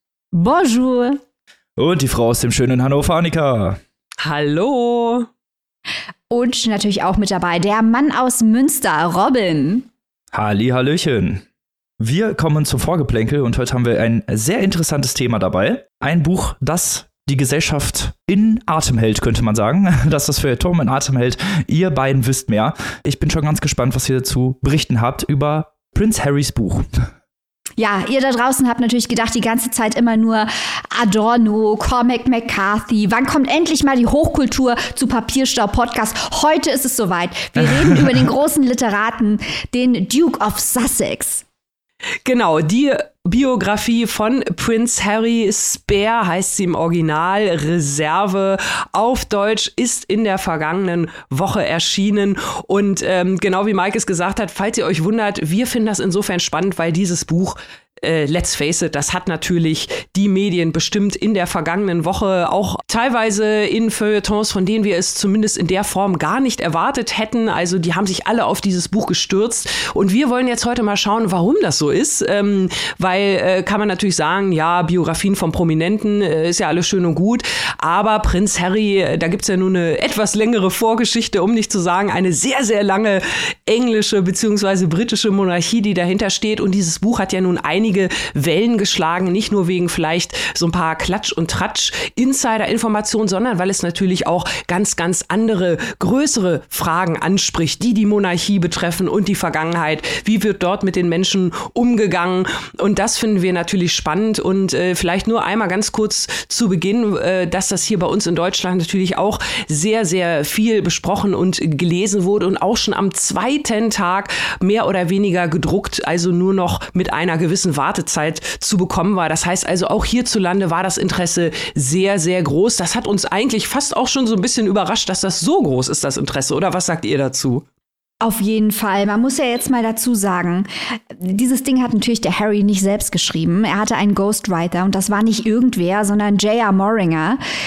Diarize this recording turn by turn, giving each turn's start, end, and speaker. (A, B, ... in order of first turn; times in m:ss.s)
0:00.3-0:01.2 A
0:01.8-0:03.8 B
0:04.2-0:05.3 C
0:06.3-0:09.9 A
0:10.3-0:11.4 B
0:12.0-0:26.9 B
0:27.8-0:41.4 A
0:42.2-2:07.6 C
2:08.2-2:17.4 A